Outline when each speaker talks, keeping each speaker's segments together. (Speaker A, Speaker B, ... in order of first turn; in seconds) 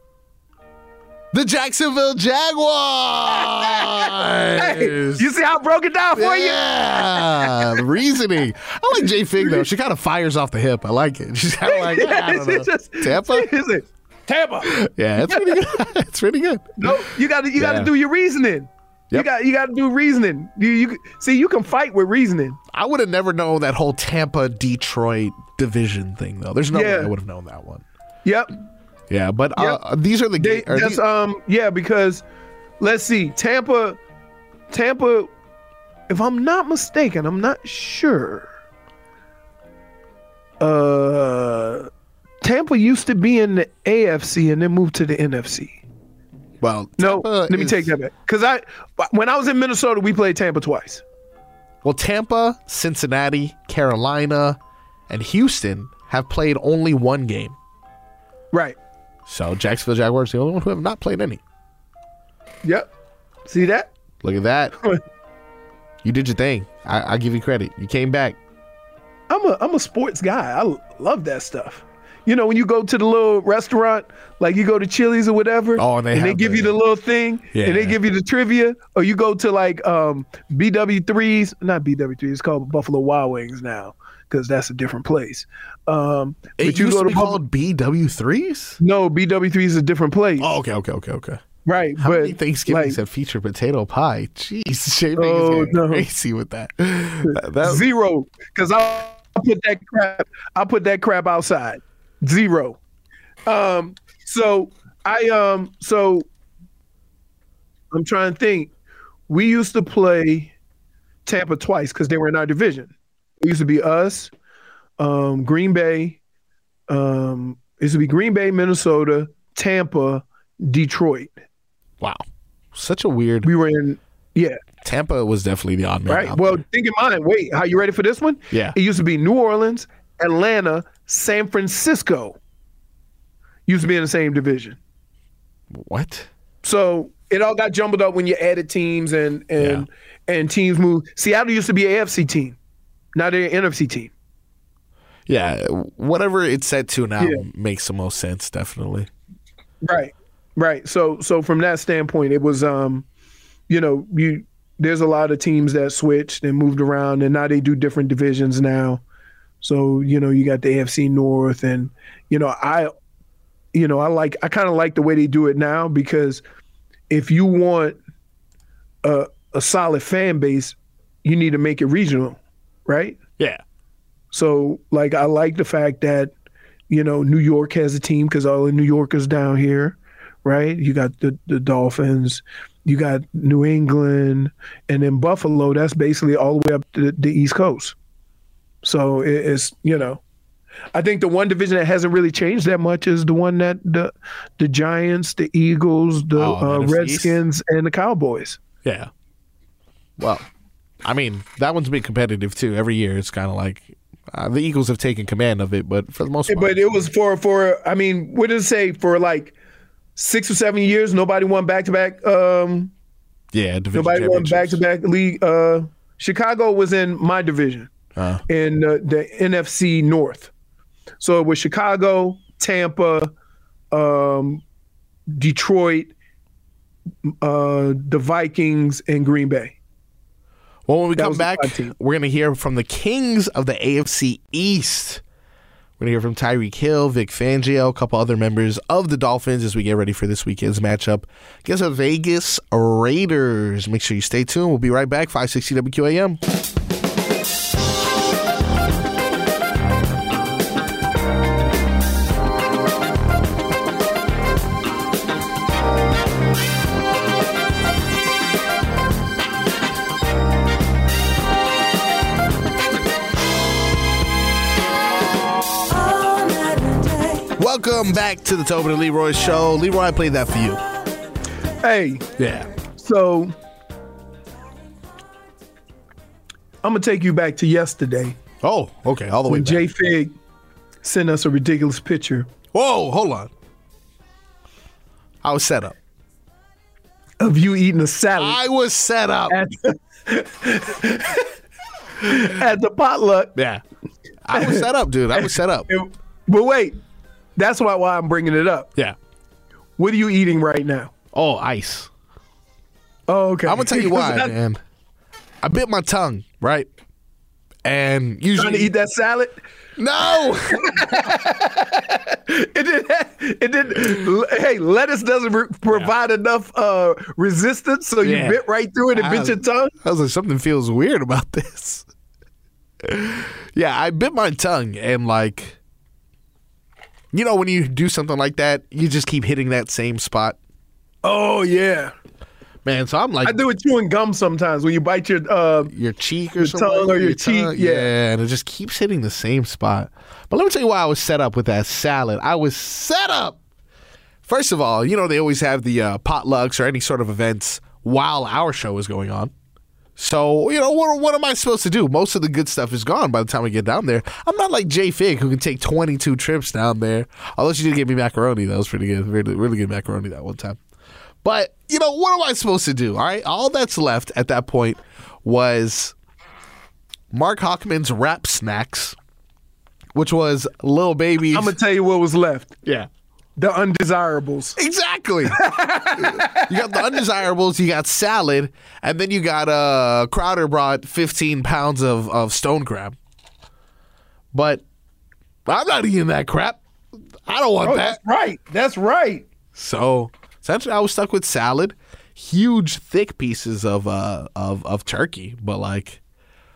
Speaker A: 1.3-5.3, 6.1-13.5, 14.6-17.9, 22.7-27.8, 29.1-31.0, 46.6-47.9, 51.8-57.5, 59.2-61.4, 64.2-64.7, 66.0-68.4, 75.8-76.8, 77.5-78.0, 86.6-88.8, 90.4-91.4, 92.0-97.8, 122.0-123.5, 124.8-126.6, 128.5-128.8, 135.7-136.3, 139.6-139.9, 145.3-149.1, 196.3-197.4, 198.8-199.1, 200.2-200.5, 201.0-206.9, 213.5-214.8, 218.2-218.4, 230.9-235.2, 236.0-246.4, 267.5-270.8, 272.4-272.7, 278.6-279.9, 282.7-283.5, 285.4-285.9, 288.4-289.6, 293.5-293.8, 294.4-295.9, 301.3-302.1, 303.6-304.8, 305.6-306.9, 307.8-308.9, 310.0-311.4, 318.2-318.6, 319.1-322.1, 323.0-325.8, 327.3-330.6, 332.8-333.6, 335.9-343.6, 344.4-349.5, 350.2-360.8, 361.4-366.1, 367.3-369.1, 370.1-371.8, 372.8-373.1, 374.8-383.1, 384.5-384.8, 385.6-386.8, 387.4-388.2, 389.7-396.2
Speaker B: 3.5-7.8, 9.0-9.7, 11.6-15.7, 16.8-22.6, 26.7-27.1, 28.2-28.5, 30.4-32.2, 32.8-34.0, 34.7-35.3, 36.1-38.5, 40.6-41.9, 42.4-45.8, 47.0-51.0, 58.5-58.8, 62.6-62.9, 63.5-63.9, 69.3-87.4, 88.8-90.6, 91.6-93.0, 95.2-96.1, 97.6-102.8, 103.5-106.3, 107.9-108.7, 109.3-110.5, 111.2-114.3, 115.0-116.2, 116.9-121.3, 123.4-124.6, 126.1-132.4, 133.7-134.8, 136.6-142.6, 143.1-144.1, 147.2-147.4, 149.8-153.1, 153.7-159.0, 159.6-162.9, 163.7-166.4, 167.1-168.0, 169.0-173.2, 174.3-176.3, 176.9-187.9, 188.8-190.2, 190.9-198.6, 206.5-209.5, 210.2-212.9, 213.9-217.9, 218.5-220.5, 221.2-223.3, 223.9-224.6, 225.3-226.1, 227.3-229.8, 231.2-231.9, 271.8-272.3, 272.9-273.5, 276.8-278.4, 279.5-280.3, 281.0-282.5, 287.4-288.6, 289.5-291.5, 292.2-293.5, 294.5-296.9, 297.6-298.9, 300.0-301.1, 303.3-304.5, 308.6-309.6, 310.4-319.9, 331.2-332.1, 333.4-335.9, 336.6-338.1, 371.5-372.7, 373.6-374.8, 375.5-377.2, 387.8-389.4